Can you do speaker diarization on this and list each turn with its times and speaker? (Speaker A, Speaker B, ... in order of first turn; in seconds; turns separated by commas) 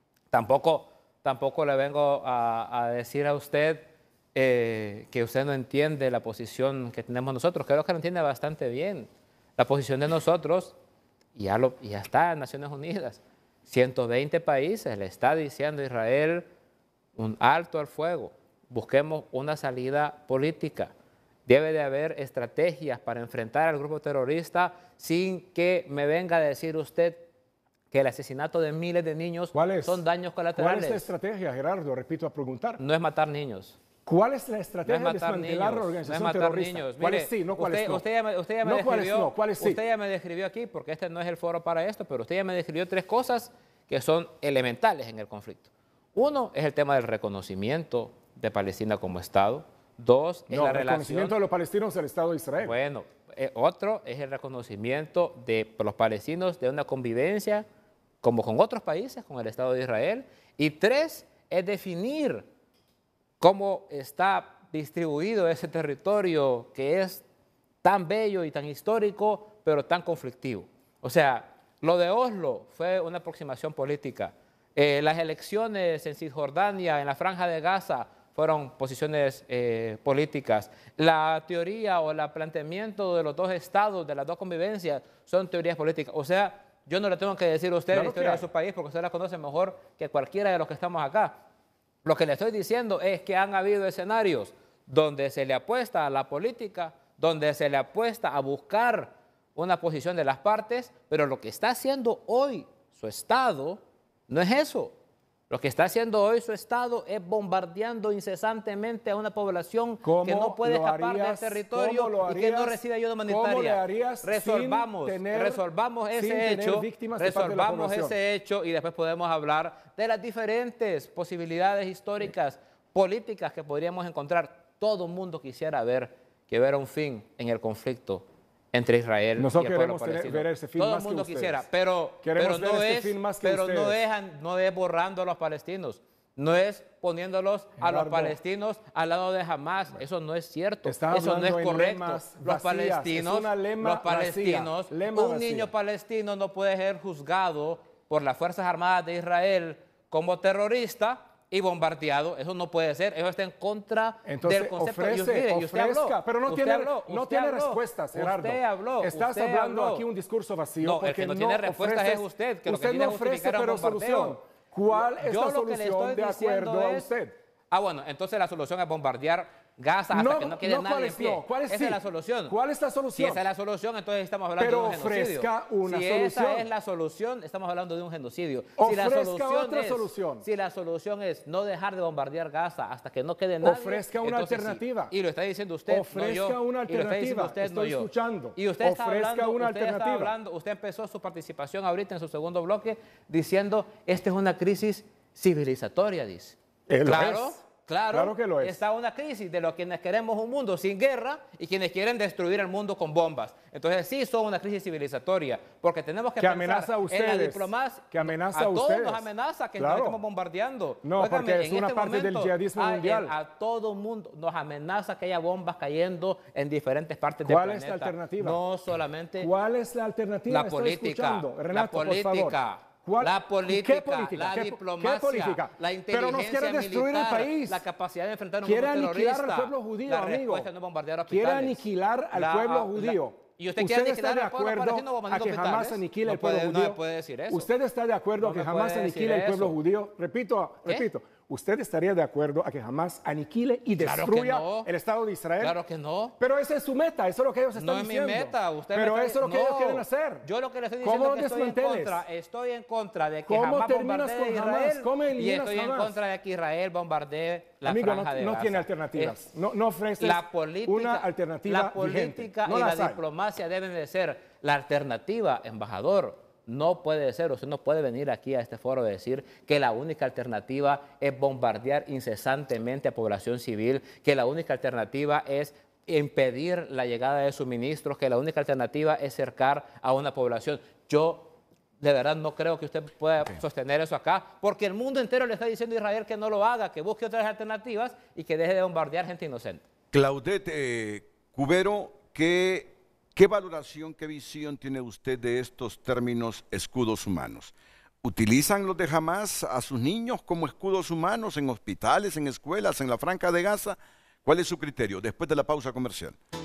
Speaker A: 0.3-10.8, Speaker A: 11.3-16.5, Speaker A: 17.1-20.9, Speaker A: 21.5-27.3, Speaker A: 27.9-31.1, Speaker B: 29.5-30.0, Speaker B: 30.5-32.8, Speaker A: 32.8-33.8, Speaker B: 34.0-38.0, Speaker A: 34.9-51.4, Speaker B: 38.6-39.8, Speaker B: 50.5-52.8, Speaker A: 52.6-57.6, Speaker A: 58.2-62.5, Speaker A: 63.4-67.2, Speaker A: 67.8-91.4, Speaker B: 87.9-88.5, Speaker A: 92.0-104.9, Speaker A: 105.5-160.1, Speaker B: 110.0-115.6, Speaker B: 116.1-118.2, Speaker B: 129.3-131.6, Speaker B: 132.2-134.0, Speaker B: 137.8-138.4, Speaker B: 140.8-145.7, Speaker B: 154.2-167.4, Speaker A: 160.8-164.4, Speaker A: 164.9-167.1, Speaker A: 167.7-172.5, Speaker B: 170.1-173.4, Speaker A: 173.1-219.5, Speaker B: 174.6-176.7, Speaker B: 178.8-180.5, Speaker B: 183.6-185.1, Speaker B: 185.9-190.3, Speaker B: 196.9-198.8, Speaker B: 206.4-210.2, Speaker B: 211.0-213.3, Speaker B: 217.4-218.6, Speaker B: 219.4-227.8, Speaker A: 220.5-237.7, Speaker B: 228.6-230.7, Speaker B: 231.3-245.8, Speaker A: 238.4-239.8, Speaker A: 244.0-244.9, Speaker A: 245.6-246.3, Speaker B: 246.4-250.5, Speaker A: 247.8-259.4, Speaker B: 251.0-252.2, Speaker B: 253.4-256.2, Speaker B: 257.8-263.2, Speaker A: 260.2-289.8, Speaker C: 290.1-306.4